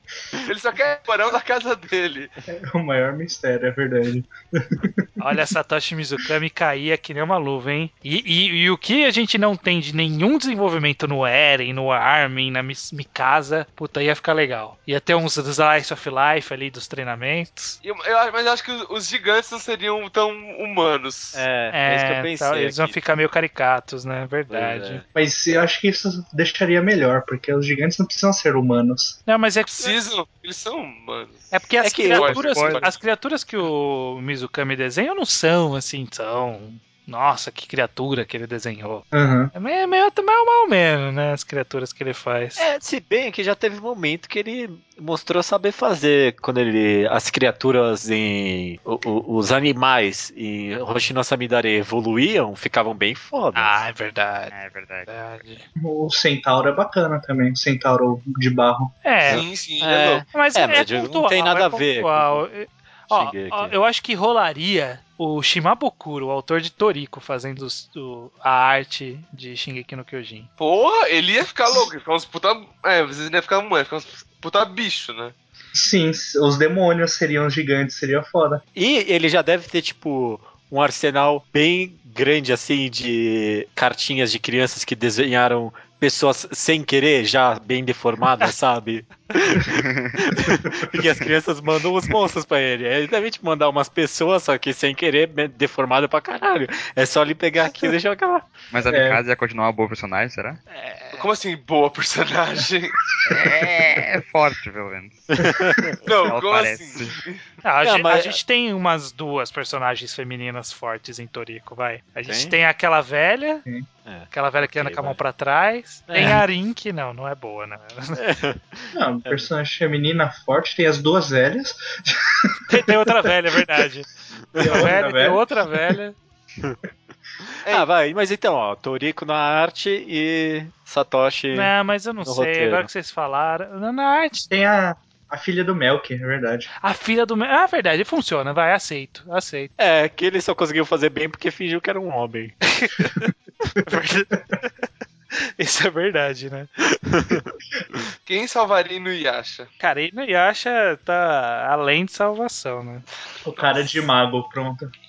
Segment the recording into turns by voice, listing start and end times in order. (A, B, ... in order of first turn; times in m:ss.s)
0:00.5-0:02.3 A
0:02.7-0:05.1 B
0:05.2-0:17.8 C
0:17.8-0:21.4 A
0:21.3-0:23.0 D
0:21.7-0:25.0 C
0:24.5-0:25.0 D
0:25.1-0:29.2 B
0:29.2-0:30.1 C
0:29.7-0:31.5 A
0:31.5-0:42.6 C
0:31.8-0:32.3 D
0:32.1-0:33.0 A
0:32.4-0:32.8 E
0:39.1-0:39.5 B
0:42.6-0:53.8 D
0:53.5-0:54.5 C
0:54.5-0:55.1 E
0:55.1-0:55.6 C
0:55.8-0:58.9 B
0:59.0-0:59.4 C
0:59.3-1:02.4 D
0:59.3-1:00.2 A
1:00.3-1:10.5 C
1:03.1-1:03.7 D
1:10.6-1:15.3 A
1:15.7-1:18.6 B
1:18.7-1:38.4 D
1:38.7-1:40.6 E
1:38.9-1:39.2 B
1:40.7-1:41.3 C
1:41.1-1:42.9 A
1:43.3-1:45.5 E
1:45.4-1:45.9 D
1:45.4-1:45.9 B
1:46.0-1:47.5 A
1:46.1-1:47.2 E
1:47.6-1:53.6 C
1:47.8-1:48.4 D
1:52.2-1:52.6 D
1:54.0-1:55.2 D
1:54.3-1:58.2 C
1:56.1-1:56.4 D
1:58.2-1:59.5 D
1:58.9-2:02.2 B
2:02.7-2:04.1 C
2:04.5-2:05.0 D
2:04.6-2:05.4 B
2:04.6-2:06.2 C
2:07.6-2:11.7 D
2:11.5-2:14.5 C
2:12.2-2:12.9 D
2:14.5-2:16.7 B
2:16.8-2:19.7 C
2:19.8-2:22.6 D
2:22.7-2:23.3 C
2:23.8-2:24.7 C
2:25.6-2:26.7 C
2:27.1-2:27.4 D
2:28.2-2:29.7 A
2:29.8-2:33.0 C
2:33.4-2:34.9 B
2:33.6-2:33.9 A